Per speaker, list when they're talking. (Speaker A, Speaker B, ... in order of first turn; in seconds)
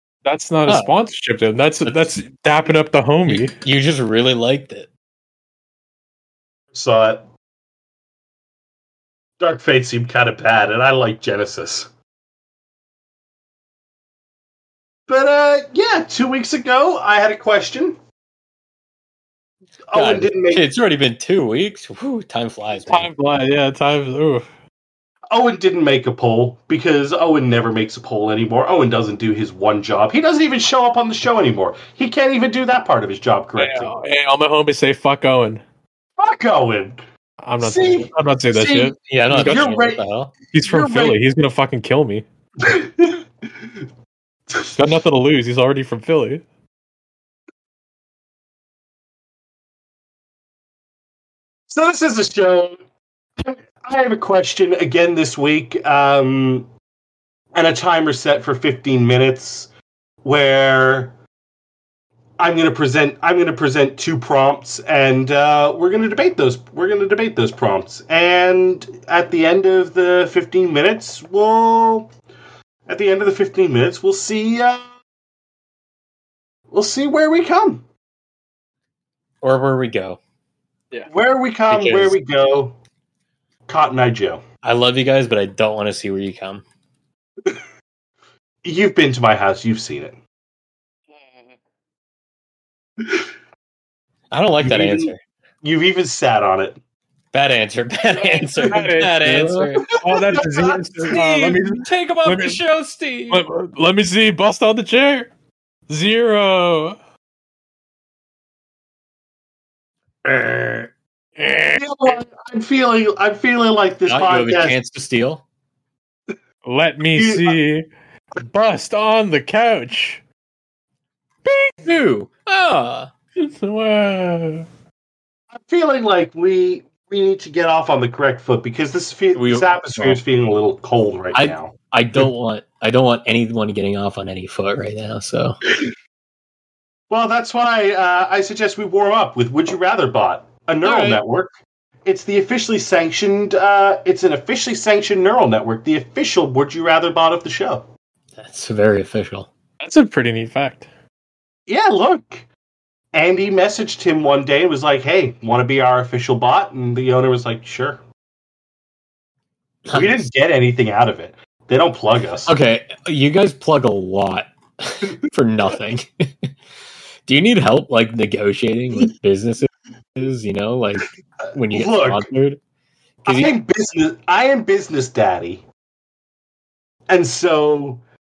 Speaker A: 0.2-3.6, 22.9-24.5, 33.6-35.6, 37.4-39.7, 40.5-42.3, 44.7-46.4, 98.6-102.6, 103.3-105.3, 105.9-107.0, 111.4-111.8, 116.7-117.9, 118.4-120.2, 123.4-124.7, 140.8-141.2, 149.8-150.9
Speaker B: 3.3-4.9, 19.9-23.1, 39.1-40.3, 79.4-80.2, 81.7-82.2, 84.6-86.6, 94.3-95.2, 97.3-99.9, 101.1-103.5, 110.2-110.9, 114.1-115.4, 121.5-123.1, 129.3-130.2, 131.3-135.6, 148.4-149.5, 159.9-160.3, 162.4-166.5, 167.3-172.6, 173.3-173.5
Speaker C: 6.7-7.3, 9.4-11.9, 15.1-18.0, 19.9-20.7, 25.3-33.9, 36.2-37.0, 37.6-40.0, 40.5-41.2, 42.6-43.2, 51.7-52.8, 53.4-56.7, 57.5-59.7, 60.2-61.1, 62.4-72.1, 72.9-74.9, 76.7-77.9, 81.1-82.8, 83.7-84.4, 88.6-90.2, 94.6-95.1, 95.6-96.8, 99.8-101.2, 111.8-114.8, 117.2-117.6, 125.5-131.7, 137.1-147.9, 151.7-152.5, 153.1-158.0, 159.9-162.5, 171.7-172.3, 173.2-175.7, 177.1-178.0